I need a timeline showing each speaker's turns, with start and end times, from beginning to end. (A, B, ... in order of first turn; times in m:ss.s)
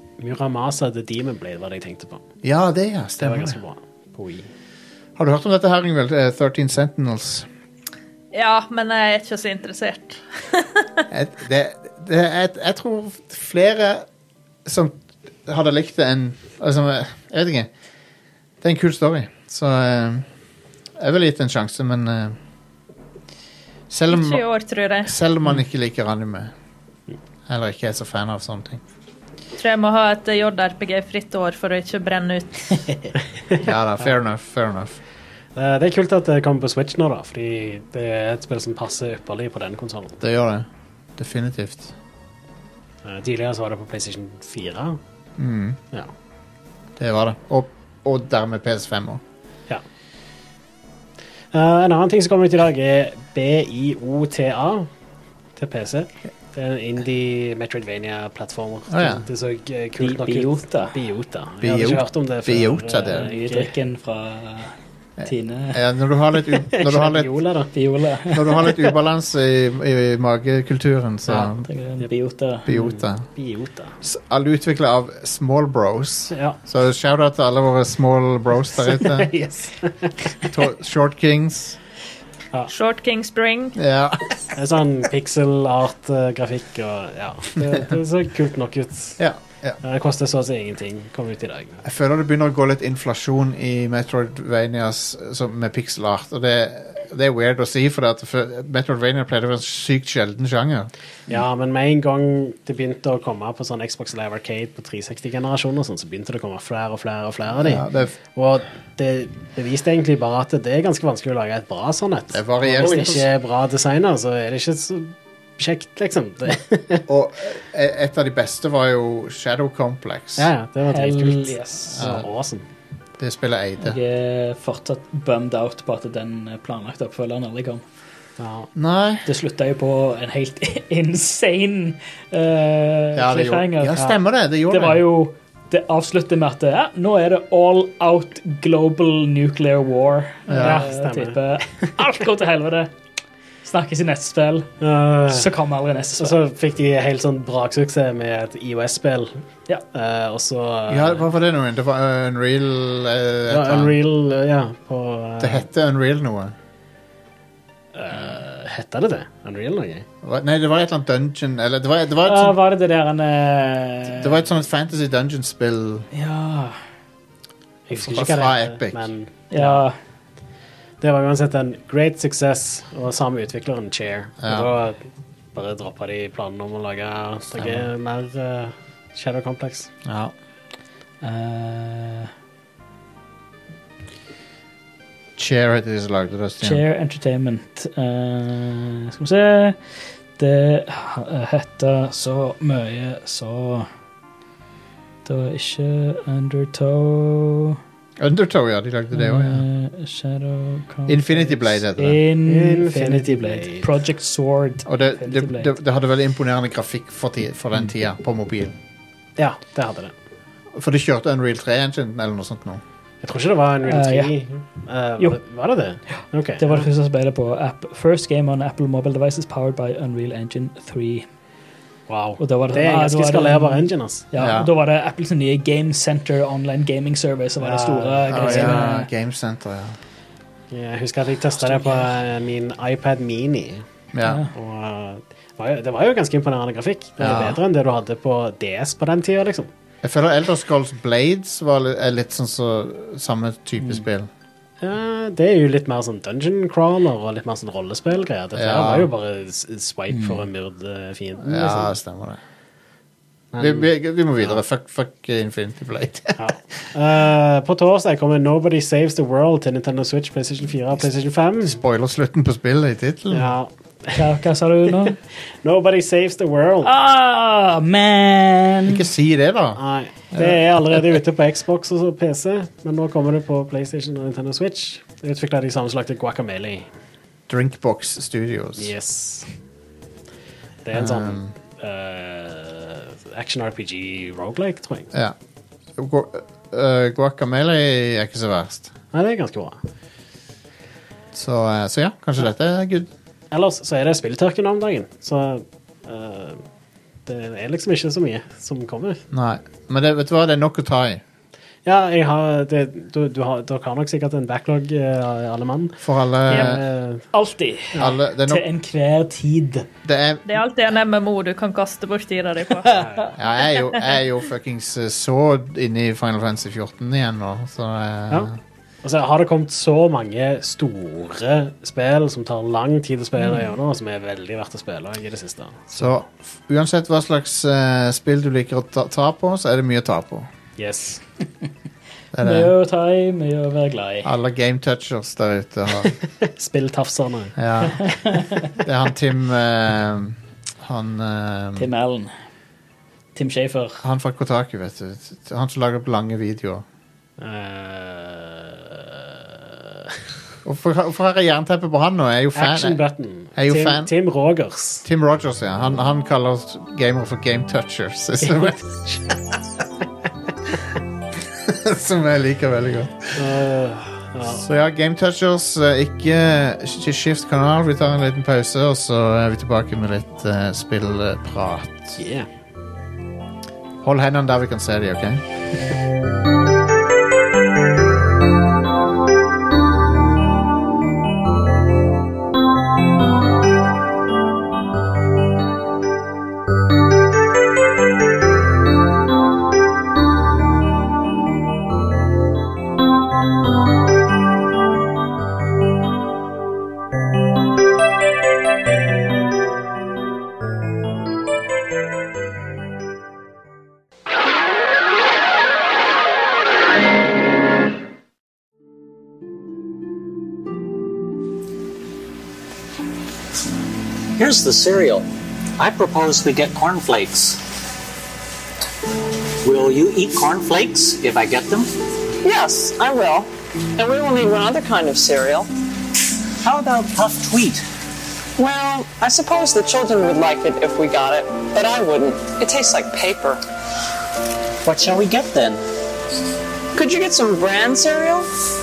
0:00.2-0:02.2 A
0:02.4-0:03.6 B
0:03.2-0:04.5 A
0:05.2-0:07.5 B
0:08.3-0:10.9 C
0:11.1-0:14.0 B
0:14.6-0:17.7 B
0:18.6-0:20.2 B
0:21.0-0:22.4 B
0:23.9-0:24.4 B
0:24.1-0:25.1 C
0:25.0-0:26.5 B
0:27.5-0:28.8 B
0:29.5-0:32.8 C
0:33.6-0:35.0 B
0:35.6-0:40.2 A
0:40.2-0:41.9 B
0:43.0-0:45.0 A
0:45.4-0:45.8 B
0:47.0-0:49.2 B
0:51.5-0:54.9 A
0:55.6-1:03.7 A
0:58.9-0:59.2 B
1:00.0-1:00.9 D
1:01.6-1:03.3 B
1:03.1-1:05.8 D
1:05.2-1:07.3 B
1:06.6-1:07.7 A
1:07.7-1:08.7 D
1:08.3-1:11.6 B
1:11.3-1:12.1 A
1:11.6-1:12.7 D
1:12.6-1:13.3 B
1:12.7-1:13.9 A
1:14.0-1:19.3 B
1:16.3-1:16.6 A
1:18.8-1:20.5 A
1:20.5-1:21.8 B
1:22.7-1:23.8 C
1:23.8-1:24.5 B
1:24.5-1:29.2 A
1:29.2-1:29.8 B
1:29.8-1:31.8 A
1:31.8-1:40.9 B
1:41.3-1:57.0 A
1:47.6-1:48.2 B
1:52.3-1:53.3 B
1:52.8-1:53.2 D
1:57.1-2:00.5 B
2:00.4-2:02.6 A
2:00.9-2:02.0 D
2:02.0-2:02.3 B
2:03.2-2:04.0 B
2:03.8-2:07.8 D
2:08.4-2:08.7 A
2:08.7-2:09.2 B
2:09.2-2:14.1 D
2:13.1-2:15.0 B
2:14.7-2:22.9 D
2:20.5-2:20.9 B
2:20.5-2:21.4 A
2:23.6-2:24.7 D
2:24.8-2:25.5 A
2:25.3-2:26.4 D
2:26.2-2:29.4 A
2:29.9-2:31.2 A
2:30.9-2:34.0 B
2:33.5-2:35.6 A
2:35.4-2:36.5 B
2:37.9-2:40.0 A
2:40.2-2:42.6 B
2:42.2-2:44.4 D
2:44.1-2:46.1 B
2:46.1-2:46.8 D
2:47.9-2:49.8 A
2:48.0-2:49.1 B
2:49.5-2:50.0 D
2:51.0-2:55.0 A
2:54.4-2:54.7 B
2:55.5-2:59.9 A
2:57.6-2:57.9 B
3:00.0-3:00.3 B
3:01.2-3:02.3 D
3:05.4-3:06.8 B
3:06.6-3:09.8 D
3:10.4-3:13.9 D
3:15.2-3:17.8 D
3:18.2-3:19.6 B
3:19.1-3:25.7 D
3:21.1-3:22.2 B
3:22.4-3:23.9 A
3:24.8-3:28.8 B
3:29.4-3:30.1 A
3:30.7-3:32.8 B
3:33.2-3:36.9 A
3:33.9-3:34.3 D
3:36.1-3:41.2 D
3:42.1-3:44.2 A
3:42.4-3:49.1 D
3:44.4-3:44.7 B
3:47.6-3:48.8 A
3:48.3-3:50.0 B
3:50.7-3:53.8 A
3:51.6-3:52.1 D
3:54.1-3:54.4 B
3:54.2-3:54.5 D
3:54.5-3:59.7 A
3:57.2-3:57.6 B
4:00.0-4:04.3 B
4:04.8-4:11.9 A
4:08.5-4:09.1 B
4:10.1-4:10.4 D
4:11.4-4:12.4 B
4:13.5-4:14.6 A
4:13.6-4:16.5 B
4:16.4-4:21.8 A
4:21.6-4:23.5 B
4:23.3-4:24.2 A
4:24.2-4:25.2 D
4:25.6-4:26.9 A
4:26.8-4:29.0 D
4:28.9-4:29.8 B
4:29.8-4:36.9 A
4:30.3-4:31.1 B
4:37.5-4:38.9 B
4:38.8-4:39.5 A
4:40.8-4:45.1 A
4:40.9-4:41.5 B
4:46.0-4:48.9 B
4:49.1-4:49.8 A
4:51.3-4:53.1 B
4:53.5-4:56.6 A
4:57.2-4:59.2 A
4:59.3-5:01.2 B
5:01.8-5:06.0 A
5:06.0-5:06.8 B
5:06.5-5:07.2 A
5:07.3-5:09.8 D
5:08.0-5:08.6 B
5:10.0-5:10.6 B
5:10.5-5:12.9 C
5:12.8-5:13.2 D
5:12.9-5:13.3 A
5:13.4-5:18.6 B
5:19.0-5:26.1 A
5:25.9-5:30.5 B
5:30.8-5:31.2 A
5:32.3-5:32.7 B
5:32.4-5:34.3 D
5:34.2-5:36.2 B
5:36.0-5:37.6 A
5:37.6-5:38.1 B
5:37.9-5:38.6 D
5:38.8-5:41.9 B
5:41.8-5:42.3 D
5:43.3-5:44.0 D
5:44.0-5:46.8 B
5:47.4-5:50.1 A
5:50.6-5:53.0 B
5:52.5-5:55.0 A
5:53.5-5:54.1 B
5:55.0-5:58.8 B
5:58.4-5:59.2 A
6:01.5-6:03.4 B
6:03.4-6:04.6 A
6:04.4-6:12.2 B
6:12.2-6:12.5 A
6:14.0-6:15.4 B
6:54.4-6:55.3 E
6:55.8-6:57.6 E
6:59.6-7:01.9 E
7:02.4-7:05.7 F
7:06.6-7:07.8 E
7:08.6-7:13.6 F
7:14.8-7:15.8 E
7:16.9-7:18.5 F